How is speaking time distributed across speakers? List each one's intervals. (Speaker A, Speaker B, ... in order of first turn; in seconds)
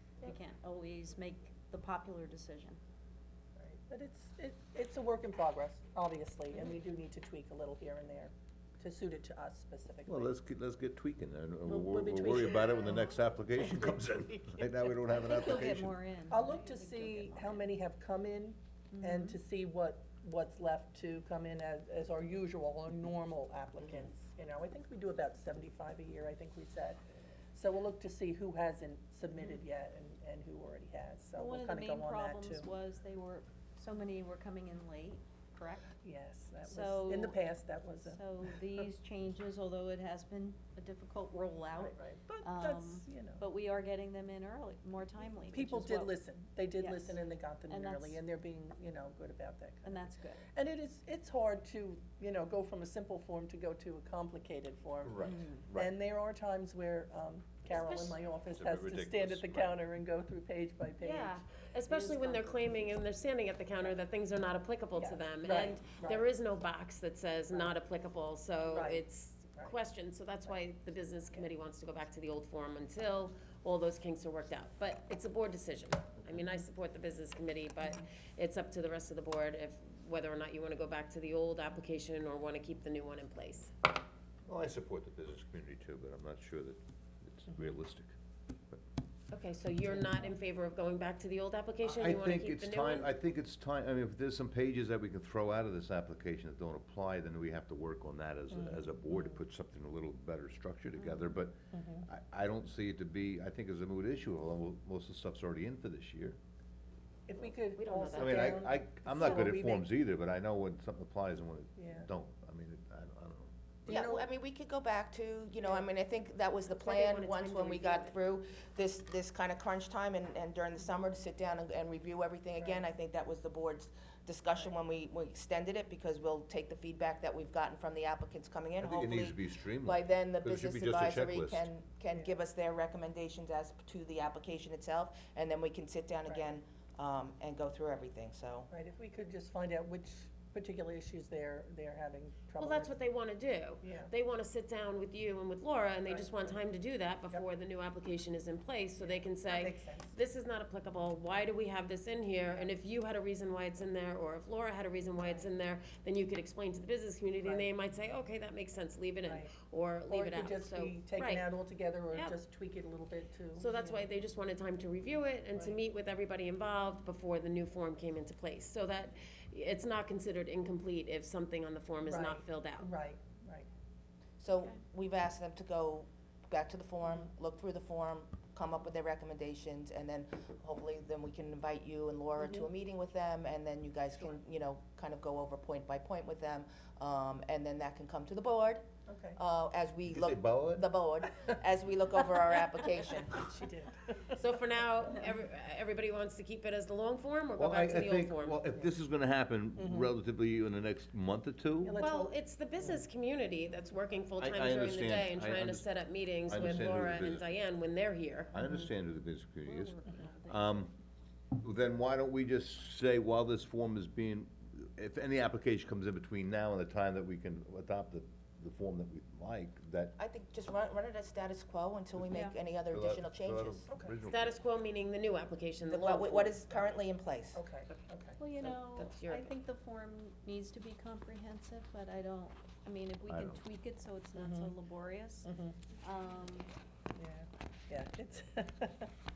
Speaker A: 0.2-2.8, 15.1-17.7, 18.9-19.4, 31.4-35.9, 36.6-37.4, 38.0-46.2, 46.8-47.1, 47.7-48.2, 49.8-50.5, 55.2-55.6, 101.0-101.2, 209.7-210.4, 228.4-235.5, 236.0-236.7
Speaker B: 3.6-10.3, 11.6-14.7, 16.3-27.0, 27.5-32.7, 35.9-38.9, 41.7-43.4, 45.5-62.9, 65.0-66.3, 68.7-69.7, 98.5-99.3, 101.7-102.0, 107.3-109.9, 111.8-112.1, 113.9-114.3, 122.6-122.8, 138.7-143.0, 143.8-144.1, 146.1-146.6, 149.0-150.2, 152.5-152.7, 155.2-155.5, 157.4-157.7, 159.2-164.1, 165.5-165.8, 172.0-173.7, 189.1-189.4, 192.9-194.4, 199.8-200.1, 201.8-203.0, 223.9-224.1, 227.5-228.4, 234.3-234.7, 235.4-235.8, 237.1-239.1
Speaker C: 10.1-16.0, 55.0-55.9, 58.5-59.8, 84.5-88.1, 91.8-106.4, 108.1-113.5, 128.8-131.7, 190.0-190.8, 197.6-202.0, 204.4-205.9, 206.4-207.5, 208.5-210.9, 211.6-220.1, 222.9-224.6, 233.3-233.6
Speaker D: 57.7-58.2, 61.0-83.7, 89.3-93.1, 107.7-108.6, 116.8-118.1, 142.6-161.4, 163.6-172.9, 194.4-198.6, 202.0-208.5, 224.2-226.6, 228.6-229.5
Speaker E: 113.8-138.7, 174.4-188.8, 189.4-193.4, 220.2-223.8, 225.8-227.6